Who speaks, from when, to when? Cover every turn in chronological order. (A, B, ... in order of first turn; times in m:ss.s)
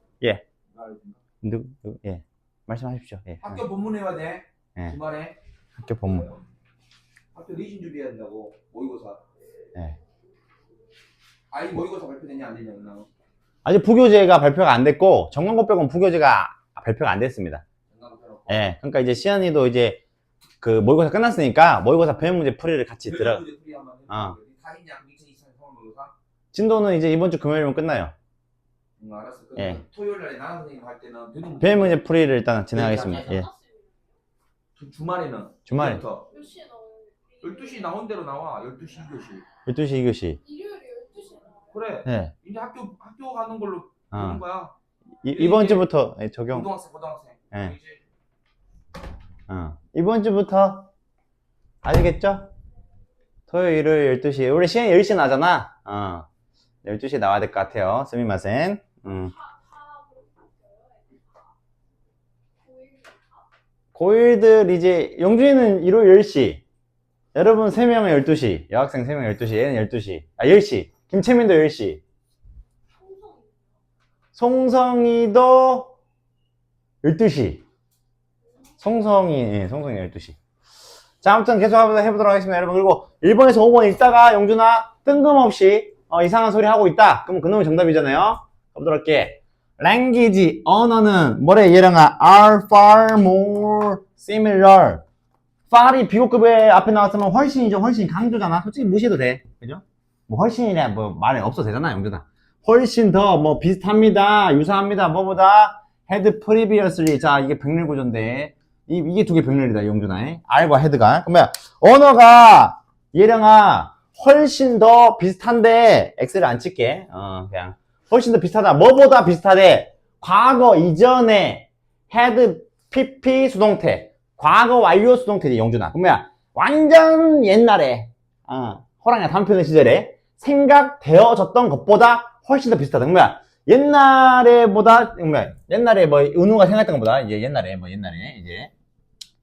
0:00.7-0:01.1 A
0:01.4-0:03.6 B
0:03.4-0:05.4 A
0:05.8-0:06.4 B
0:07.3-0:09.2 A
0:11.5-0:13.1 A
0:13.6-0:17.6 B
0:17.9-0:18.6 A
0:18.5-0:20.0 B
0:20.6-0:23.4 B
0:23.1-0:26.1 A
0:24.1-0:24.4 B
0:26.5-0:28.1 B
0:29.0-0:32.0 A
0:29.6-0:29.8 B
0:31.6-0:33.5 B
0:32.7-0:33.3 A
0:33.5-0:33.9 C
0:34.8-0:36.4 A
0:35.6-0:36.0 B
0:36.4-0:37.4 C
0:37.4-0:39.4 A
0:39.6-0:40.4 B
0:40.5-0:41.5 C
0:41.6-0:44.7 A
0:42.0-0:42.3 B
0:44.1-0:44.4 B
0:45.2-0:46.7 B
0:45.3-0:45.8 A
0:46.5-0:47.9 A
0:47.5-0:47.8 B
0:49.5-0:50.9 B
0:51.8-0:52.5 B
0:53.5-0:56.2 B
0:56.8-0:59.4 B
0:59.7-1:01.0 C
1:02.7-1:03.2 C
1:03.9-1:06.6 B
1:07.3-1:12.0 B
1:13.1-1:13.4 C
1:14.3-1:15.9 B
1:17.0-1:17.6 B
1:18.8-1:20.4 B
1:21.2-1:35.0 B
1:35.7-2:18.7 B